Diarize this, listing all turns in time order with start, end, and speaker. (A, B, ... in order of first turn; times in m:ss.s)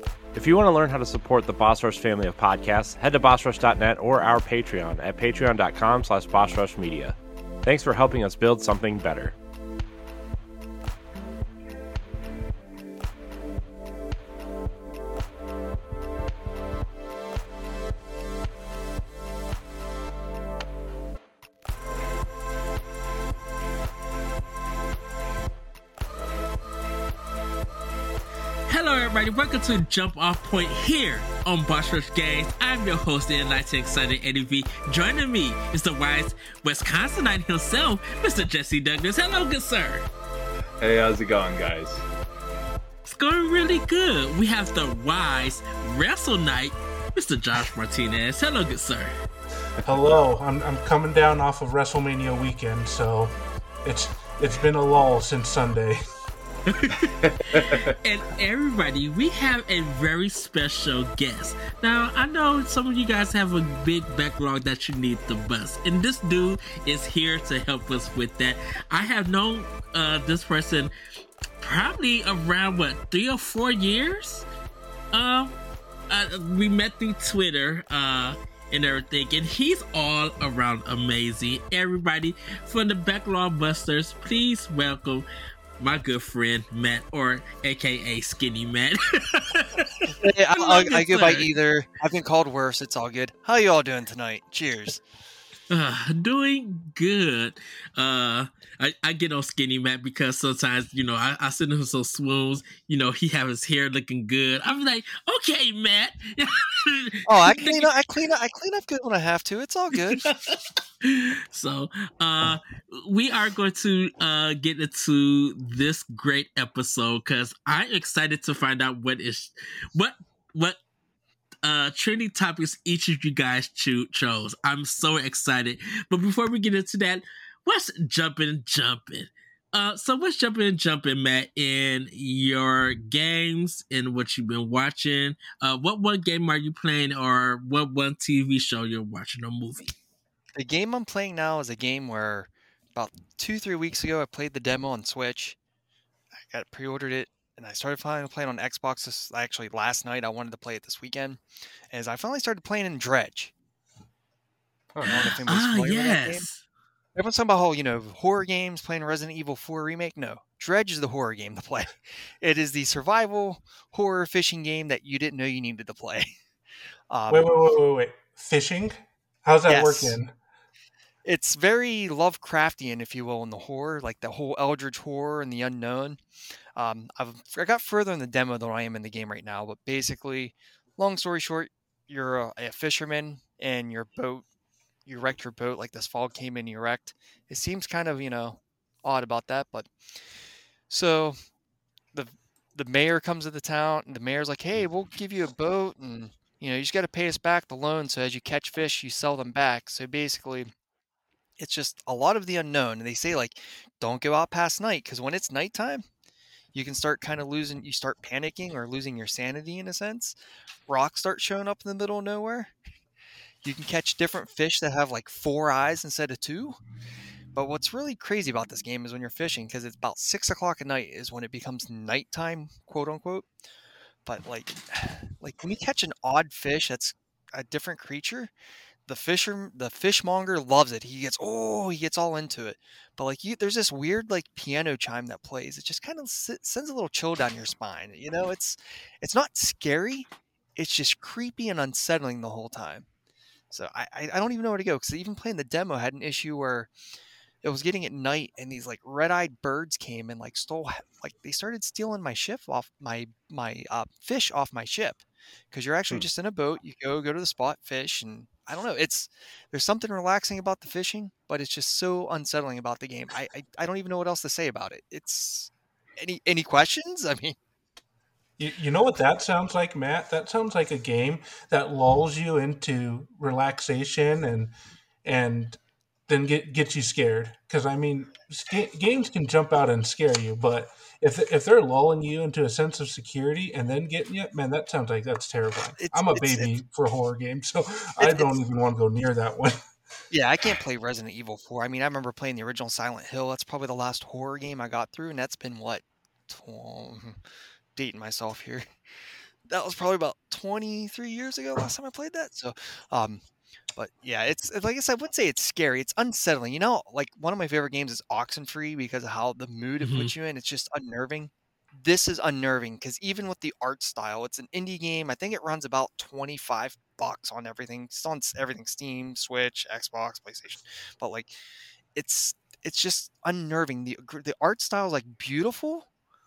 0:00.3-0:09.4 A
0:28.7-0:40.1 B
0:40.8-0:42.0 C
0:43.1-0:49.1 B
0:49.8-0:56.0 D
0:56.7-1:10.9 B
0:57.2-0:57.9 C
1:11.6-1:14.5 B
1:15.1-1:15.6 B
1:16.1-1:25.3 B
1:25.8-1:31.5 B
1:30.1-1:35.0 E
1:35.7-1:47.9 B
1:47.3-1:50.3 E
1:49.9-2:00.8 B
2:01.6-2:19.9 B
2:20.6-2:25.6 E
2:26.5-2:33.5 E
2:34.9-2:35.4 C
2:35.0-2:36.6 B
2:35.1-2:36.5 E
2:37.2-2:46.4 E
2:47.1-2:47.5 E
2:47.3-2:50.3 D
2:49.7-2:50.2 E
2:51.2-2:56.2 E
2:56.8-3:04.4 E
3:05.1-3:09.9 E
3:10.9-3:11.4 E
3:12.1-3:20.7 E
3:21.6-3:26.0 E
3:26.7-3:30.4 E
3:30.9-3:32.7 E
3:33.6-3:36.8 E
3:37.5-3:43.5 E
3:44.3-3:48.5 E
3:49.1-4:03.1 E
4:03.7-4:06.9 E
4:07.6-4:27.6 E
4:28.6-4:34.7 D
4:35.2-4:49.8 D
4:46.0-4:46.7 E
4:48.2-4:48.5 E
4:50.3-4:57.4 E
4:58.0-4:58.9 E
4:59.7-5:03.4 E
5:04.0-5:21.5 E
5:10.0-5:10.3 B
5:22.2-5:26.1 E